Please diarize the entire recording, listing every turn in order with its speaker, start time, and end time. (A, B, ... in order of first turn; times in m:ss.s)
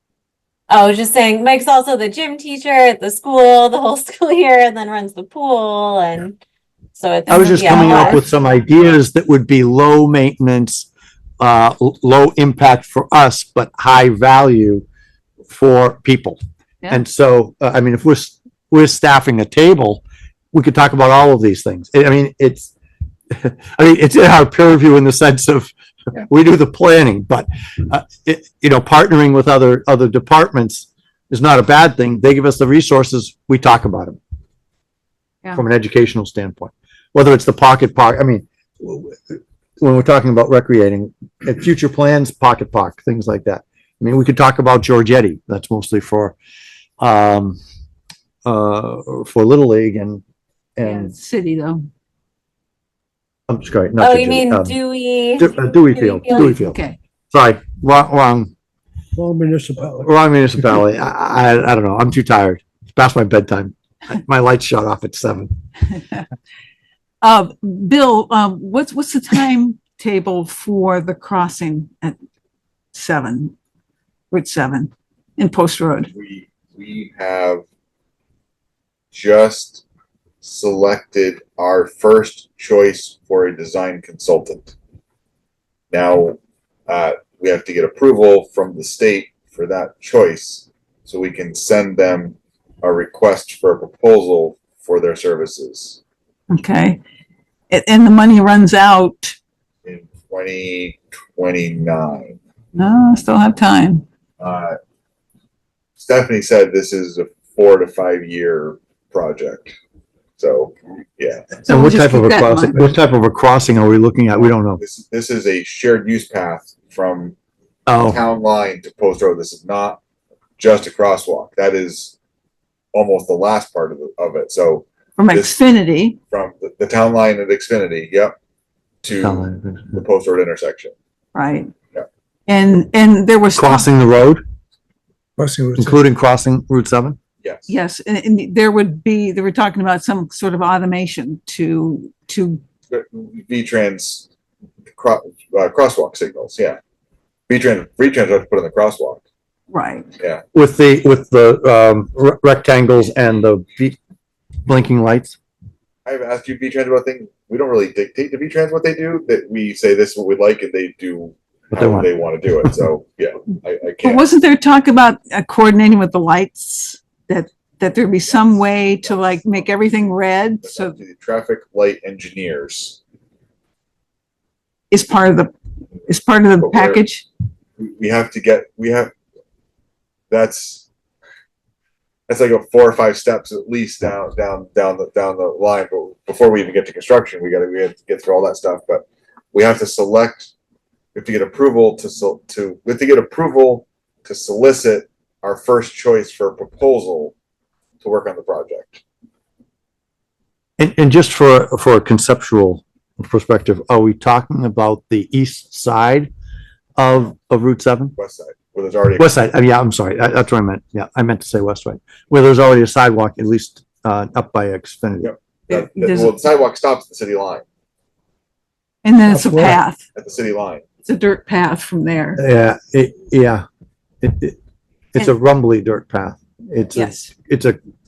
0:00.7-0:06.4 A
0:07.0-0:08.2 A
0:07.3-0:08.2 B
0:07.3-0:10.9 C
0:11.4-0:14.8 C
0:15.5-0:20.0 C
0:20.5-0:22.7 C
0:23.3-0:34.2 C
0:35.5-0:46.4 C
0:47.0-0:47.6 C
0:48.4-0:50.2 C
0:50.8-0:51.1 C
0:50.8-0:51.9 B
0:53.5-0:54.8 C
0:54.0-0:56.5 A
0:55.4-0:58.5 C
0:56.4-0:57.0 B
0:59.2-1:00.1 D
1:00.0-1:05.5 C
1:07.2-1:12.2 B
1:12.9-1:13.5 B
1:14.3-1:16.1 B
1:16.1-1:17.6 E
1:19.1-1:19.8 E
1:20.4-1:24.8 E
1:25.9-1:36.0 E
1:36.5-1:37.0 B
1:37.7-1:39.4 B
1:39.8-1:42.4 E
1:42.8-1:44.0 B
1:44.4-1:44.8 E
1:46.0-1:49.8 E
1:50.4-1:51.6 E
1:51.7-1:52.9 B
1:51.7-1:54.8 C
1:54.4-1:57.4 E
1:57.9-1:58.2 C
1:58.0-2:00.0 E
2:00.6-2:02.2 E
2:02.9-2:05.6 E
2:05.2-2:06.2 B
2:06.3-2:08.4 E
2:09.0-2:10.9 E
2:09.2-2:10.0 C
2:11.3-2:11.7 B
2:12.5-2:13.9 B
2:13.6-2:14.4 C
2:15.4-2:16.0 D
2:15.8-2:17.2 C
2:17.4-2:17.7 E
2:17.7-2:22.6 B
2:22.9-2:24.3 E
2:25.0-2:26.8 E
2:27.5-2:29.2 E
2:29.7-2:30.1 B
2:30.5-2:34.0 C
2:34.7-2:35.4 C
2:36.0-2:44.3 E
2:41.7-2:42.1 C
2:44.0-2:51.0 B
2:48.2-2:53.0 E
2:54.9-2:55.5 B
2:56.1-2:57.3 B
2:56.6-2:57.0 E
2:57.8-2:59.1 E
3:00.3-3:00.9 E
3:02.3-3:10.5 E
3:11.1-3:17.3 E
3:18.0-3:19.0 E
3:20.8-3:26.3 C
3:27.0-3:28.2 C
3:28.2-3:29.3 E
3:29.2-3:35.3 C
3:35.2-3:37.6 E
3:35.7-3:36.4 B
3:39.0-3:40.0 B
3:39.3-3:39.8 D
3:40.2-3:40.9 E
3:41.0-3:42.4 B
3:42.4-3:43.6 C
3:44.2-3:44.6 C
3:45.1-3:47.8 C
3:46.9-3:47.3 B